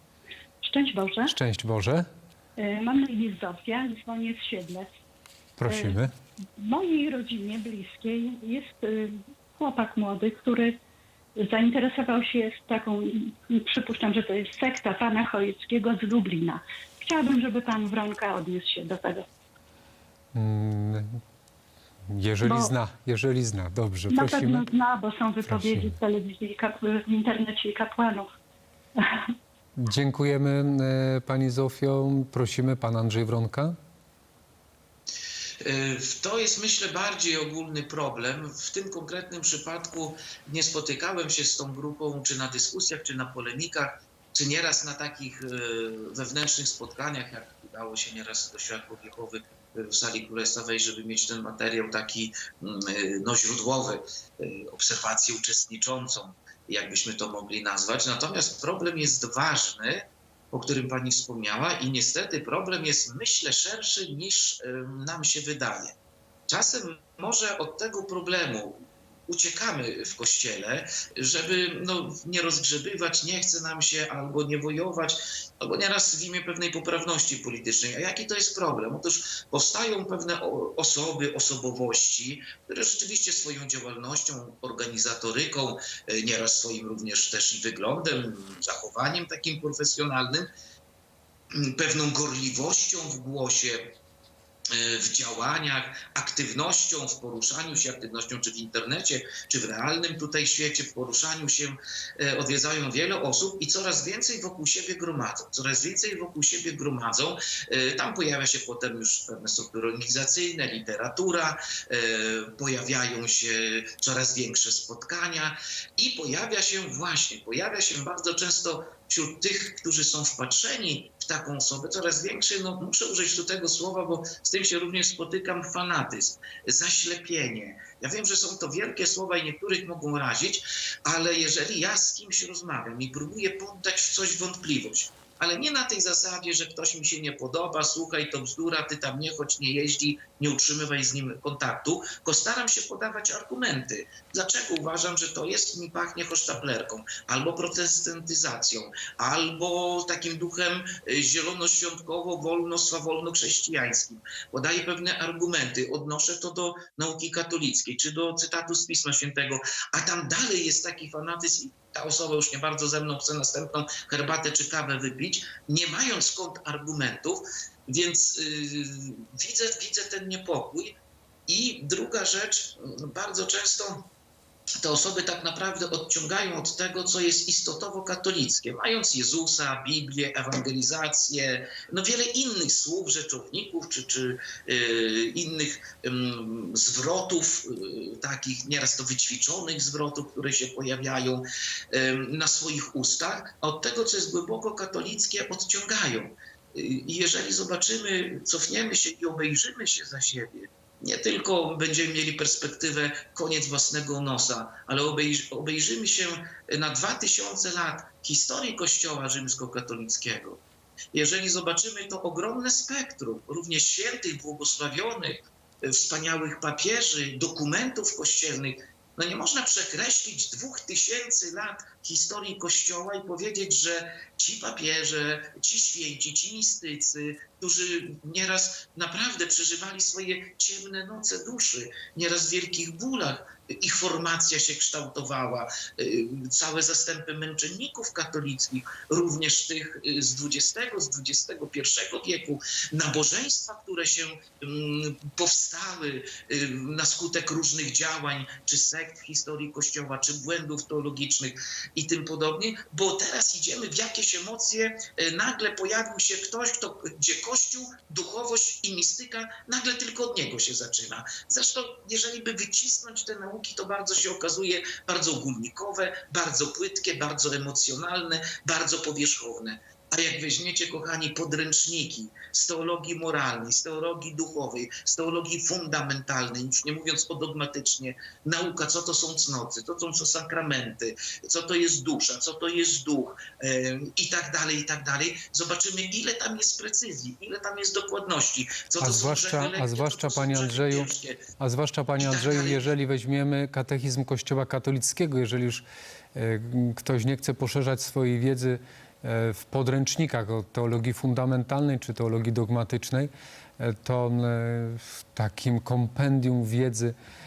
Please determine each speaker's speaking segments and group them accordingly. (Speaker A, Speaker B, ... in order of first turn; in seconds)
Speaker A: 0.6-1.3, 2.6-4.9, 5.7-6.0, 6.6-10.8, 11.4-19.3, 22.4-22.7, 24.1-28.3, 29.0-29.3
Speaker B: 1.3-2.0, 5.6-6.1, 20.3-21.2, 22.1-24.6, 25.5-26.0, 29.8-33.8, 289.0-295.8, 296.4-307.1
Speaker C: 35.6-66.0, 66.5-90.5, 91.5-94.0, 94.7-174.1, 174.8-291.4, 292.2-292.9